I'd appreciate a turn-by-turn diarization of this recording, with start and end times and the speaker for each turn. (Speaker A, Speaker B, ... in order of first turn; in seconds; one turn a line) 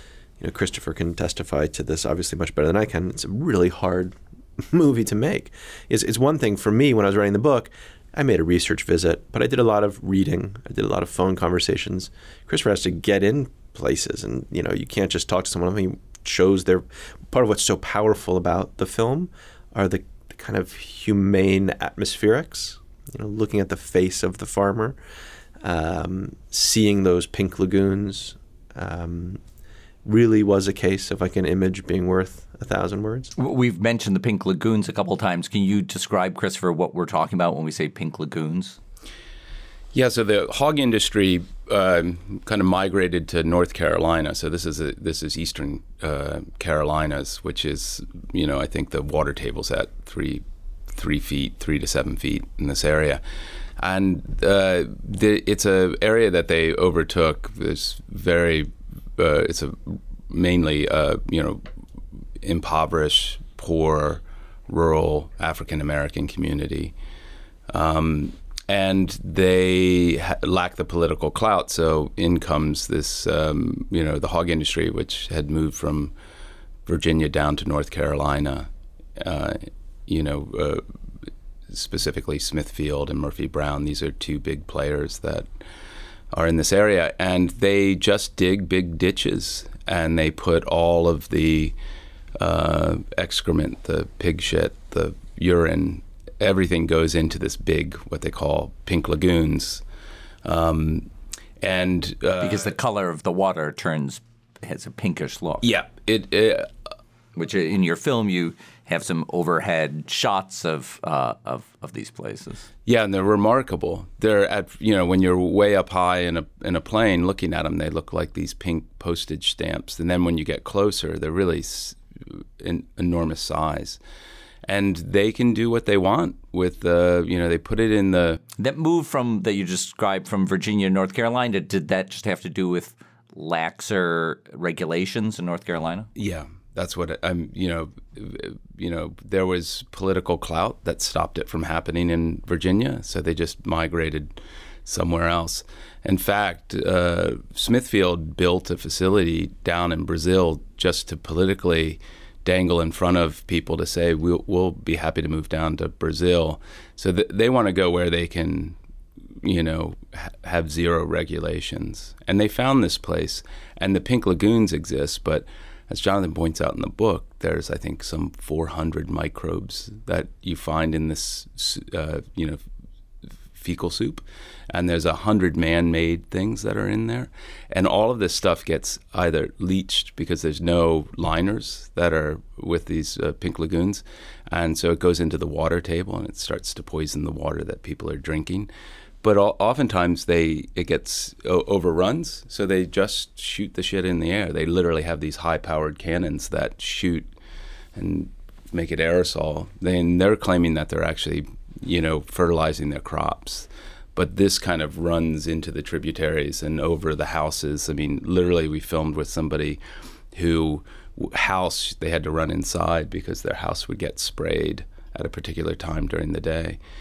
Speaker A: 0.4-25.0
Speaker A: 25.6-29.4
Speaker A: 30.0-33.3
Speaker B: 33.4-38.8
Speaker C: 39.9-53.2
Speaker C: 53.8-61.6
Speaker C: 62.4-66.9
Speaker C: 67.7-76.1
Speaker C: 76.8-80.8
Speaker C: 81.7-85.5
Speaker C: 86.3-91.7
Speaker C: 92.4-99.8
Speaker C: 100.4-101.1
Speaker C: 101.6-102.7
Speaker B: 102.4-105.6
Speaker C: 105.6-106.7
Speaker B: 107.3-112.7
Speaker C: 112.8-122.0
Speaker C: 122.6-124.0
Speaker C: 124.7-128.4
Speaker B: 128.6-136.1
Speaker C: 136.1-158.8
Speaker C: 159.4-172.6
Speaker C: 173.6-188.7
Speaker C: 189.2-197.2
Speaker C: 197.9-209.8
Speaker C: 210.3-216.8